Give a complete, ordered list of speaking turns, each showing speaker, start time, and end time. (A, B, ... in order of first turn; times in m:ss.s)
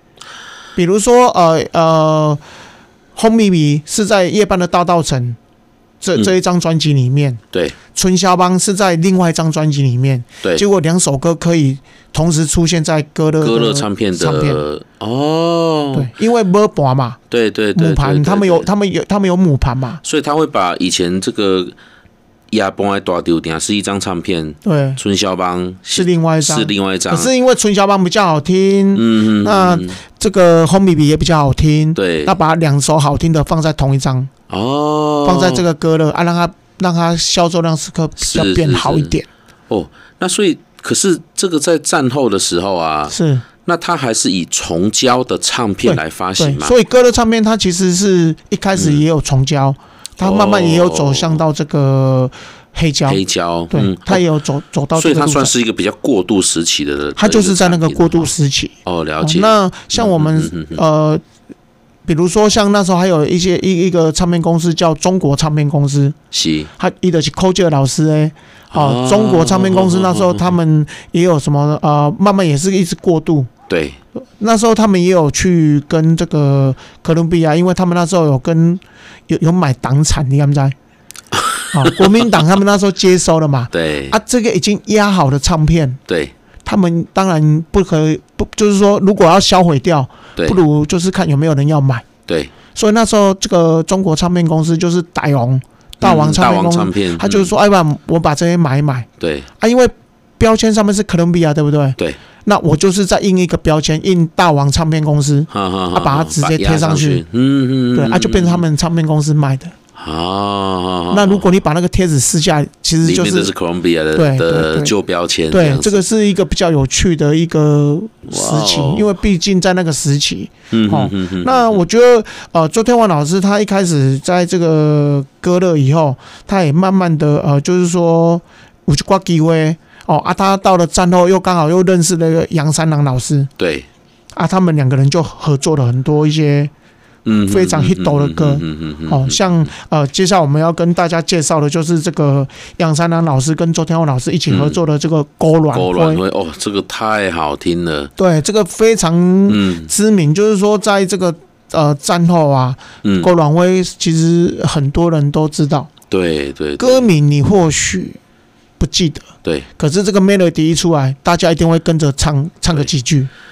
0:00.8-0:02.4 A
0:03.2-0:05.4 A
0:06.0-0:07.4 A
0:07.5-0:07.8 B
0:07.9-0:14.6 A
0:13.4-0:16.1 B
0:15.9-0:17.2 A
0:17.3-0:18.7 B
0:17.8-0:20.0 A
0:20.0-0:21.8 B
0:22.5-0:27.3 B
0:24.6-0:25.0 A
0:26.0-0:34.3 A
0:28.9-0:30.0 B
0:32.0-0:32.3 B
0:34.5-0:35.6 B
0:35.2-0:39.3 A
0:38.2-0:39.2 B
0:39.7-0:46.8 B
0:43.1-0:43.4 A
0:45.8-0:55.6 A
0:48.8-0:49.0 B
0:50.2-0:51.4 B
0:53.1-0:54.2 B
0:54.9-1:00.8 B
0:57.2-1:01.2 A
1:02.1-1:06.2 A
1:06.3-1:06.7 B
1:06.8-1:13.5 A
1:08.7-1:10.6 B
1:13.7-1:14.0 B
1:14.4-1:20.8 A
1:21.3-1:22.0 B
1:21.7-1:26.0 A
1:23.7-1:24.2 B
1:26.1-1:26.3 B
1:26.6-1:32.1 A
1:32.7-1:39.1 A
1:36.0-1:37.5 B
1:39.2-1:39.5 B
1:39.6-1:47.2 A
1:45.5-1:48.6 B
1:47.9-1:49.7 A
1:50.0-1:51.5 B
1:51.1-1:53.5 A
1:53.0-1:56.0 B
1:54.1-1:54.9 A
1:55.5-2:13.5 A
1:58.3-1:59.1 B
2:00.7-2:01.8 B
2:13.6-2:13.9 B
2:14.3-2:16.7 A
2:17.2-2:19.7 B
2:17.5-2:26.2 A
2:24.5-2:24.8 B
2:25.7-2:28.1 B
2:28.2-2:35.9 A
2:29.5-2:29.9 B
2:33.0-2:33.3 B
2:36.1-2:37.1 B
2:36.8-2:38.2 A
2:38.8-2:43.3 A